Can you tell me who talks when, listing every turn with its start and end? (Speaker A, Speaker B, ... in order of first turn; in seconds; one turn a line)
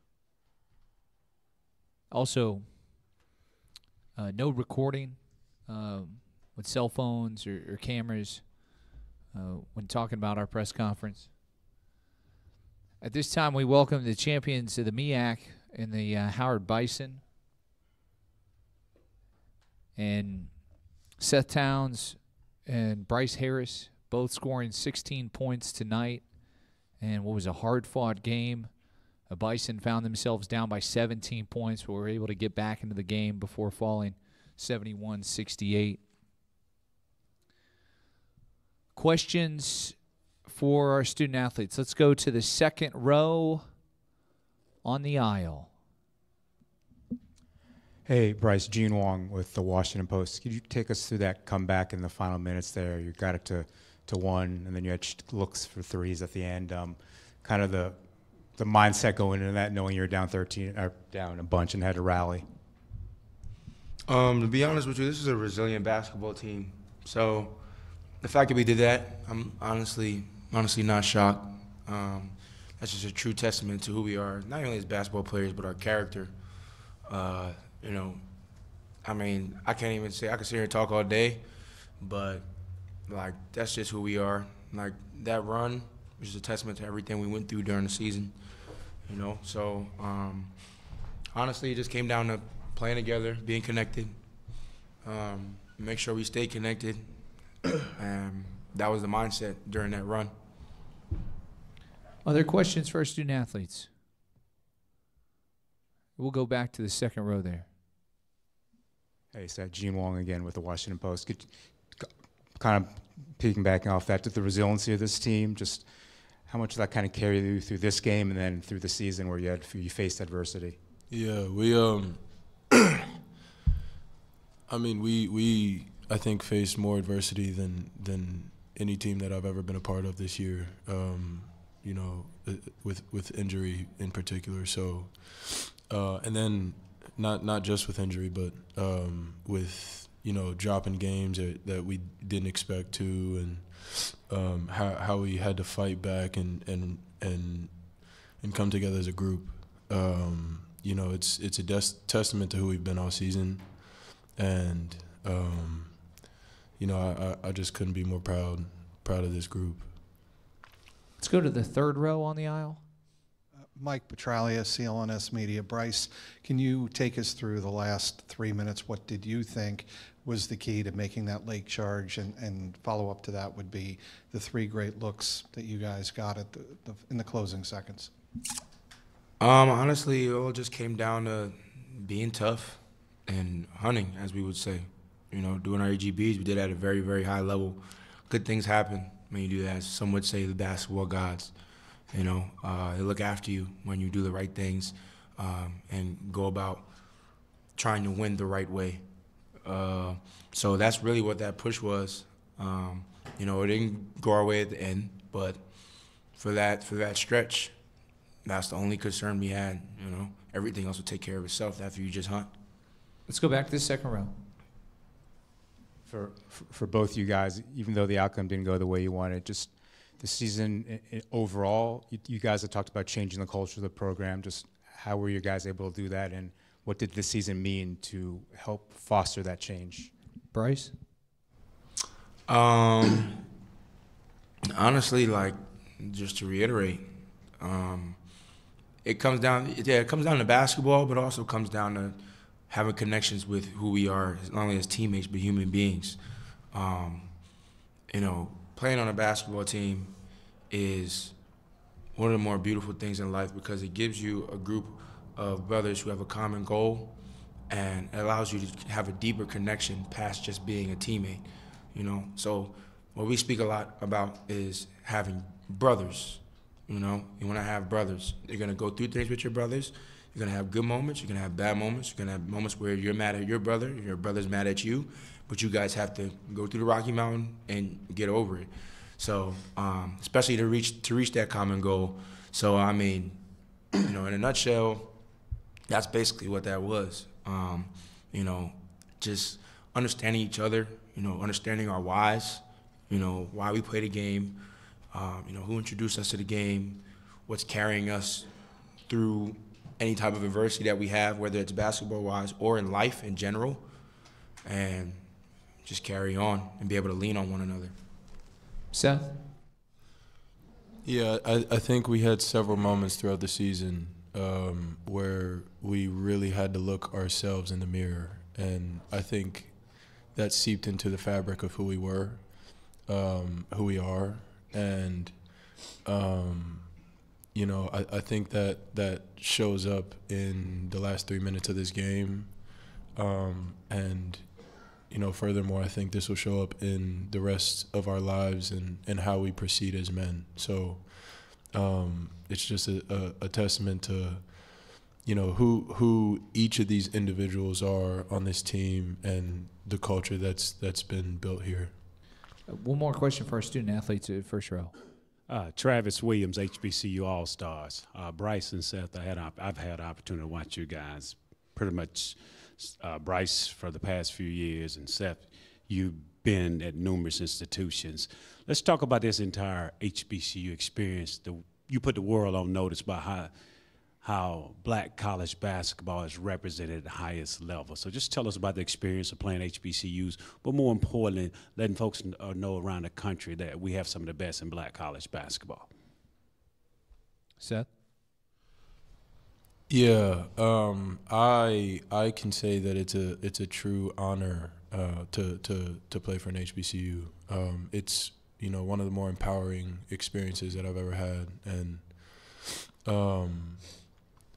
Speaker A: 2.1-3.0
Speaker A: 4.2-11.3
Speaker A: 13.0-17.2
Speaker A: 20.0-26.3
Speaker A: 27.0-28.7
Speaker A: 29.2-36.0
Speaker A: 39.0-43.6
Speaker A: 44.8-45.7
Speaker B: 48.1-58.0
Speaker B: 58.6-62.5
Speaker C: 64.1-67.6
Speaker C: 68.2-76.3
Speaker C: 77.1-78.2
Speaker C: 79.0-81.4
Speaker C: 82.0-82.5
Speaker C: 83.1-88.3
Speaker C: 89.1-90.5
Speaker C: 91.3-94.2
Speaker C: 95.0-97.1
Speaker C: 97.7-100.3
Speaker A: 102.2-103.9
Speaker A: 106.2-107.7
Speaker B: 109.3-115.9
Speaker B: 116.5-120.8
Speaker D: 121.1-123.0
Speaker D: 124.7-156.2
Speaker D: 156.8-160.0
Speaker A: 161.2-162.8
Speaker E: 163.8-178.1
Speaker C: 179.4-191.5
Speaker C: 192.1-196.9
Speaker C: 197.8-199.0
Speaker C: 199.7-205.6
Speaker C: 206.4-207.8
Speaker C: 208.4-212.5
Speaker A: 213.3-214.3
Speaker B: 216.1-230.1
Speaker A: 230.5-230.9
Speaker C: 232.5-233.4
Speaker C: 234.7-237.1
Speaker C: 237.6-238.2
Speaker C: 239.0-246.2
Speaker C: 246.7-247.3
Speaker C: 248.1-250.1
Speaker C: 250.7-251.4
Speaker C: 252.2-257.2
Speaker C: 257.7-283.4
Speaker C: 284.0-285.1
Speaker C: 285.9-294.6
Speaker C: 295.1-298.5
Speaker C: 299.1-303.8
Speaker C: 304.6-305.2
Speaker C: 305.9-307.9
Speaker A: 308.9-309.3
Speaker D: 311.0-327.0
Speaker D: 327.5-352.0
Speaker A: 352.7-354.9
Speaker F: 355.5-373.5
Speaker F: 374.2-385.9
Speaker A: 387.6-387.9
Speaker D: 389.9-404.0